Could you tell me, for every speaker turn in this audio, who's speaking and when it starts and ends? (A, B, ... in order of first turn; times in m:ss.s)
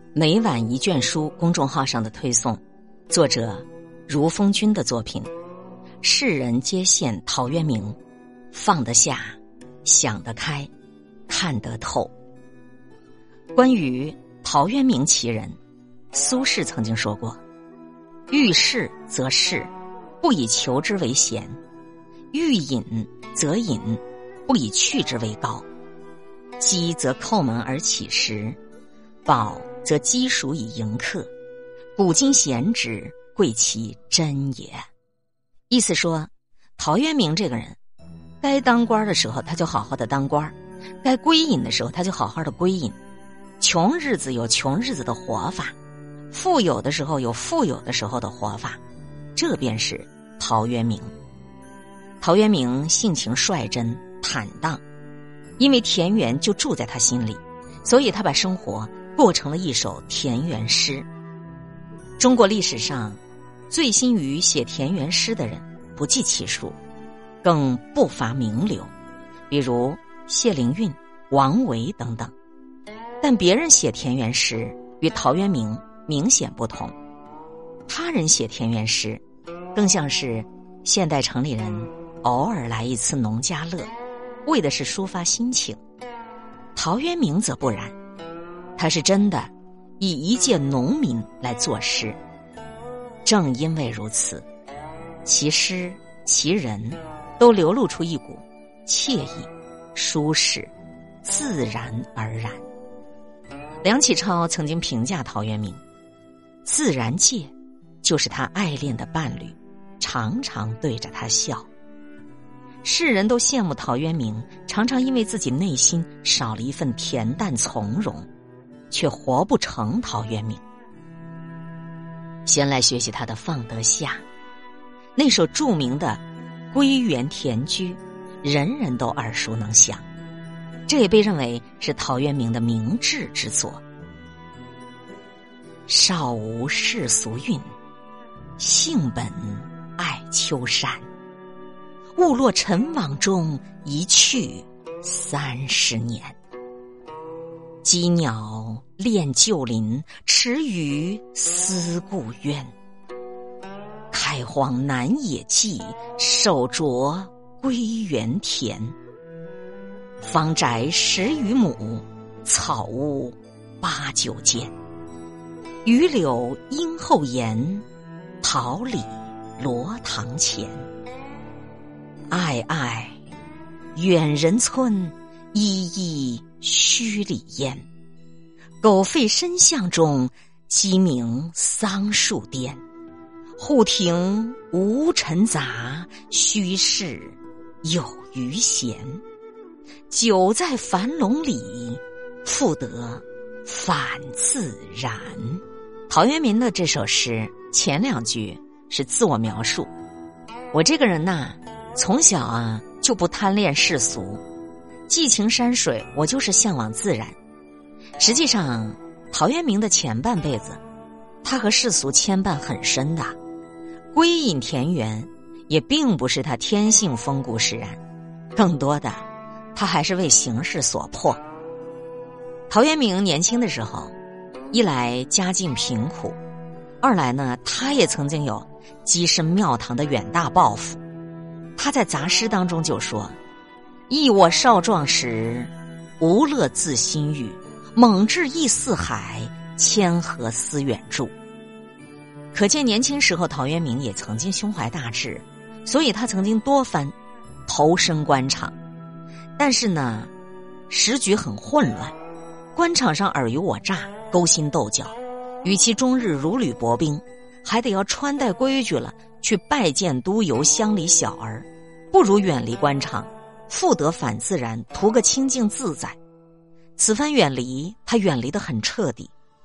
0:00.1-0:05.3 A
0:06.0-0:08.0 A
0:08.5-0:10.7 A
0:11.3-0:12.1 A
0:13.6-0:15.6 A
0:16.1-0:17.4 A
0:18.3-0:21.6 A
0:22.3-0:25.7 A
0:26.6-0:28.6 A
0:29.3-0:31.3 A
0:32.0-0:34.8 A
0:35.7-0:37.8 A
0:38.4-0:43.0 A
0:43.6-0:45.8 A
0:46.3-0:48.8 A
0:49.4-0:51.1 A
0:52.2-0:54.8 A
0:55.6-1:01.1 A
1:02.2-1:03.2 A
1:03.7-1:06.8 A
1:07.4-1:08.9 A
1:09.5-1:12.3 A
1:13.2-1:16.9 A
1:17.9-1:19.2 A
1:19.8-1:23.9 A
1:24.4-1:25.8 A
1:26.8-1:28.0 A
1:28.8-1:32.2 A
1:33.2-1:34.5 A
1:35.2-1:40.7 A
1:41.2-1:42.6 A
1:43.8-1:45.8 A
1:46.6-1:47.5 A
1:48.0-1:51.7 A
1:52.8-1:58.3 A
1:58.9-2:00.6 A
2:02.5-2:04.2 A
2:05.2-2:10.0 A
2:10.9-2:13.8 A
2:15.9-2:17.7 A
2:18.6-2:21.1 A
2:22.2-2:26.4 A
2:27.8-2:32.7 A
2:34.1-2:39.0 A
2:40.2-2:44.8 A
2:45.8-2:47.8 A
2:48.4-2:50.9 A
2:52.3-2:53.2 A
2:53.9-2:57.9 A
2:58.8-3:02.8 A
3:03.6-3:09.2 A
3:10.1-3:19.9 A
3:20.7-3:24.4 A
3:25.1-3:27.4 A
3:28.2-3:30.8 A
3:31.4-3:33.4 A
3:34.1-3:38.0 A
3:38.6-3:41.4 A
3:42.7-3:44.1 A
3:44.7-3:46.4 A
3:47.0-3:51.0 A
3:51.8-3:53.4 A
3:54.1-4:01.3 A
4:02.5-4:07.2 A
4:07.7-4:08.8 A
4:09.6-4:10.3 A
4:10.9-4:12.2 A
4:12.8-4:26.2 A
4:27.0-4:29.3 A